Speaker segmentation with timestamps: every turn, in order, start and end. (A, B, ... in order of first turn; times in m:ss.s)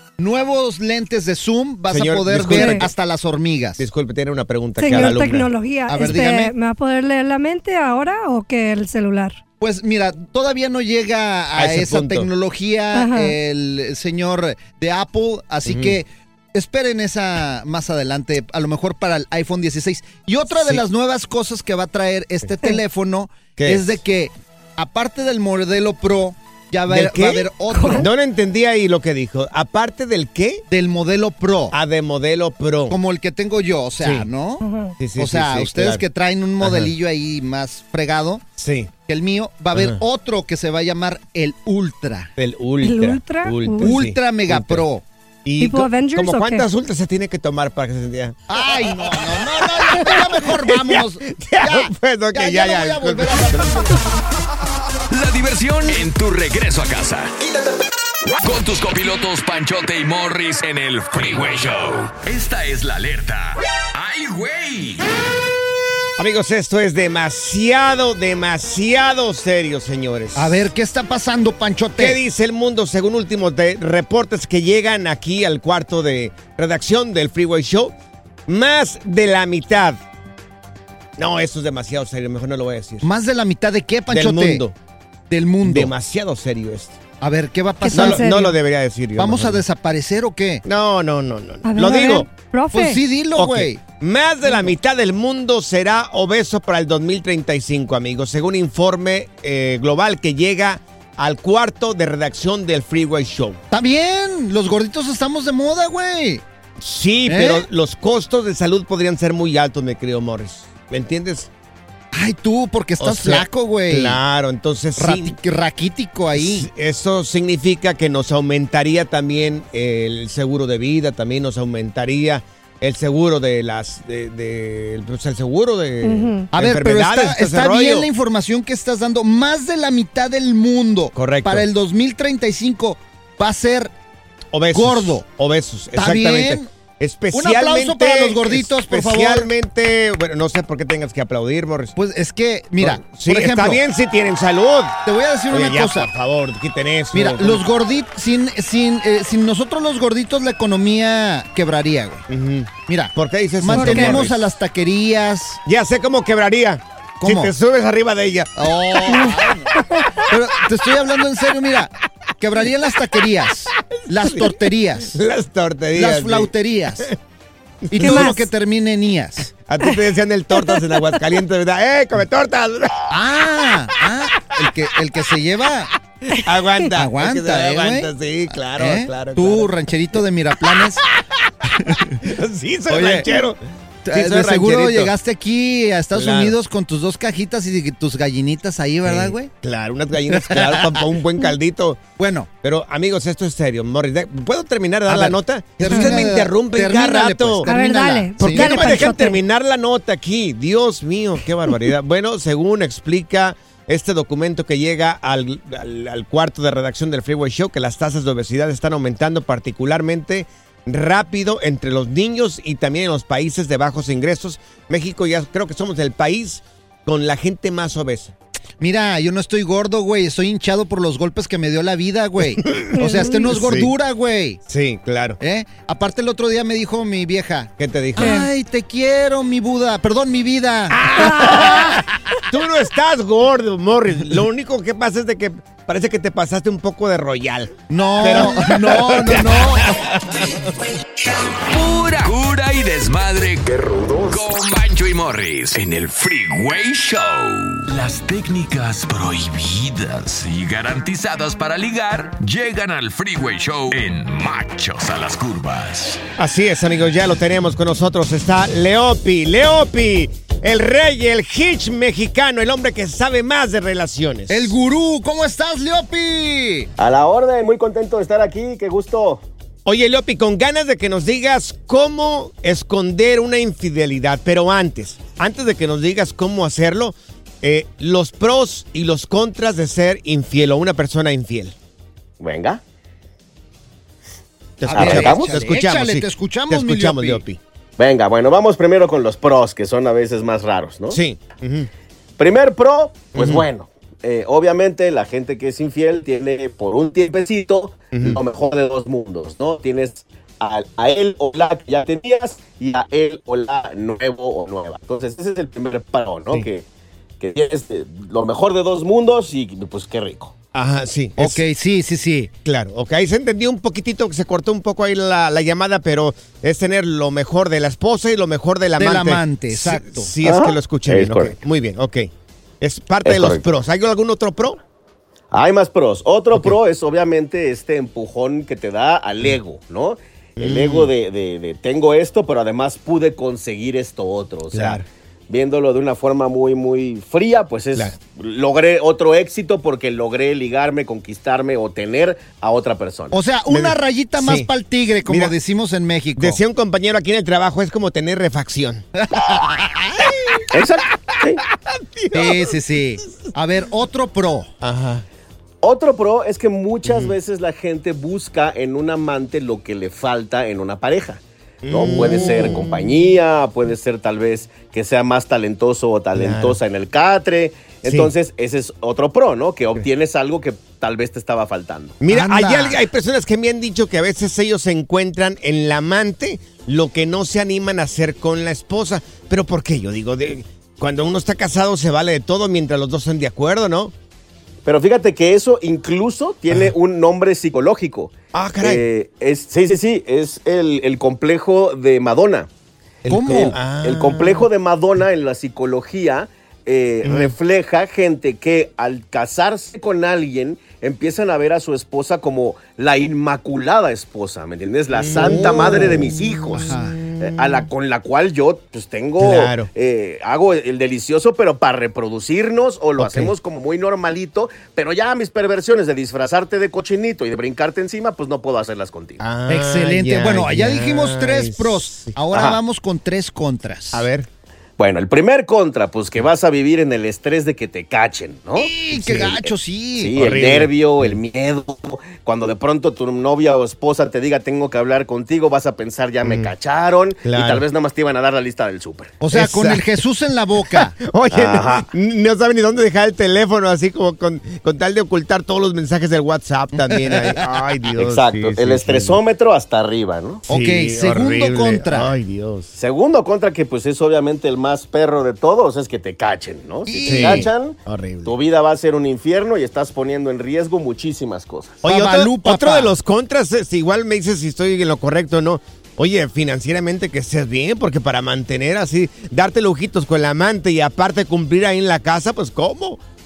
0:00.2-0:03.8 A
0:01.9-0:02.9 B
0:02.5-0:02.9 C
0:03.8-0:05.5 B
0:04.8-0:09.4 C
0:04.9-0:05.2 A
0:05.9-0:06.5 A
0:09.6-0:28.1 A
0:11.6-0:12.3 B
0:12.9-0:13.4 C
0:15.6-0:16.0 B
0:20.5-0:20.8 B
0:23.6-0:24.0 B
0:26.9-0:30.6 B
0:27.7-0:28.0 C
0:30.7-0:31.8 A
0:31.7-0:33.0 B
0:32.9-0:34.6 A
0:34.0-0:34.3 B
0:34.6-0:35.0 C
0:35.0-0:36.0 B
0:35.2-0:38.4 A
0:36.6-0:36.9 B
0:38.6-0:38.9 B
0:39.1-0:42.3 A
0:39.7-0:40.0 B
0:42.4-0:44.8 B
0:42.8-0:44.0 C
0:43.8-0:45.0 A
0:45.4-0:53.9 B
0:45.6-0:46.7 C
0:48.5-0:54.0 A
0:55.1-0:57.4 D
0:58.4-1:05.1 D
1:06.2-1:10.6 B
1:10.4-1:12.2 A
1:12.0-1:17.9 B
1:18.5-1:20.0 B
1:21.2-1:23.1 B
1:23.0-1:24.6 A
1:24.1-1:24.8 B
1:25.3-1:25.9 A
1:25.6-1:27.0 B
1:27.2-1:28.4 A
1:27.8-1:28.5 C
1:27.9-1:29.6 B
1:29.2-1:30.6 A
1:30.6-1:32.3 B
1:31.6-1:33.0 C
1:32.7-1:33.8 A
1:33.4-1:43.6 B
1:43.7-1:46.4 A
1:46.8-1:51.5 B
1:47.3-1:47.6 A
1:52.1-1:54.2 A
1:53.0-1:55.4 B
1:55.0-1:56.7 A
1:56.4-2:08.1 B
2:06.0-2:06.5 C
2:06.5-2:13.9 A
2:11.2-2:11.7 B
2:14.5-2:22.0 B
2:14.7-2:15.2 A
2:16.0-2:16.7 A
2:17.3-2:19.5 A
2:22.0-2:23.8 A
2:22.8-2:25.0 B
2:25.1-2:26.1 A
2:25.5-2:27.6 B
2:27.1-2:32.2 A
2:32.3-2:34.4 B
2:32.9-2:35.6 A
2:33.7-2:34.2 C
2:35.7-2:39.2 B
2:37.2-2:37.5 A
2:38.6-2:45.2 A
2:44.2-2:46.5 B
2:46.0-2:47.1 A
2:47.9-2:48.3 B
2:47.9-2:49.5 A
2:48.0-2:48.5 C
2:49.7-2:53.1 B
2:53.1-2:55.9 A
2:56.3-2:59.7 B
2:57.0-2:58.1 A
2:58.7-3:01.0 A
3:00.7-3:01.3 B
3:01.8-3:02.1 A
3:01.9-3:03.6 B
3:02.9-3:03.4 A
3:04.0-3:09.5 A
3:04.1-3:05.1 B
3:06.1-3:06.6 B
3:09.0-3:12.0 B
3:10.3-3:11.0 A
3:12.2-3:12.5 A
3:12.6-3:17.7 B
3:15.1-3:19.2 A
3:15.9-3:16.2 C
3:17.6-3:19.4 C
3:18.4-3:38.3 B
3:38.8-3:44.6 A
3:42.7-3:43.9 B
3:43.0-3:43.5 C
3:44.7-3:45.4 B
3:45.4-3:52.1 A
3:47.8-3:48.4 B
3:48.2-3:48.5 C
3:50.9-4:00.6 B
3:57.9-4:00.0 A
4:01.6-4:16.2 D
4:16.4-4:24.8 B
4:24.5-4:26.9 A
4:27.0-4:29.4 E
4:29.8-4:41.8 B
4:42.4-4:42.8 E
4:44.8-4:47.6 B
4:44.9-4:47.4 A
4:44.9-4:45.6 E
4:48.0-4:51.2 E
4:51.1-4:51.9 B
4:52.4-5:06.8 E
4:53.4-4:53.6 B
4:58.1-4:58.4 B
5:07.4-5:10.6 E
5:10.7-5:11.6 B
5:11.4-5:12.5 A
5:12.6-5:24.8 B
5:19.0-5:20.3 A
5:20.4-5:21.6 E
5:23.2-5:23.6 E
5:25.5-5:43.4 E
5:30.6-5:31.1 B
5:34.7-5:35.0 B
5:43.3-5:46.6 A
5:43.7-5:44.7 B
5:45.3-5:45.6 B
5:46.4-5:49.0 B
5:49.2-5:50.6 A
5:50.7-5:51.6 E
5:51.7-5:52.8 B
5:52.3-5:54.7 A
5:54.8-5:55.2 B
5:55.8-6:12.2 E
5:57.0-5:57.3 B
6:01.8-6:03.1 B
6:06.4-6:06.8 B
6:08.0-6:08.3 B
6:12.2-6:24.1 B
6:12.3-6:13.0 A
6:24.8-6:32.7 E
6:28.5-6:29.0 B
6:33.2-6:34.7 B
6:33.3-6:33.8 A
6:33.4-6:59.4 E
6:37.2-6:37.5 B
6:45.1-6:47.8 B
6:46.8-6:47.2 A
6:49.4-6:49.9 B
6:53.2-6:53.5 B
6:59.4-7:02.4 B
6:59.7-7:04.3 A
7:04.1-7:04.5 B
7:05.0-7:09.6 E
7:08.8-7:10.4 A
7:09.2-7:09.5 B
7:10.2-7:19.4 E
7:10.4-7:11.4 B
7:16.4-7:16.7 B
7:17.4-7:17.8 B
7:19.4-7:21.2 A
7:19.5-7:20.2 B
7:20.9-7:29.4 B
7:21.5-7:22.1 E
7:27.0-7:27.6 A
7:28.2-7:30.6 E
7:30.7-7:32.9 B
7:30.7-7:32.3 A
7:33.0-7:42.0 E
7:37.1-7:37.7 A
7:37.2-7:38.6 B
7:42.0-7:53.2 B
7:42.0-7:43.1 A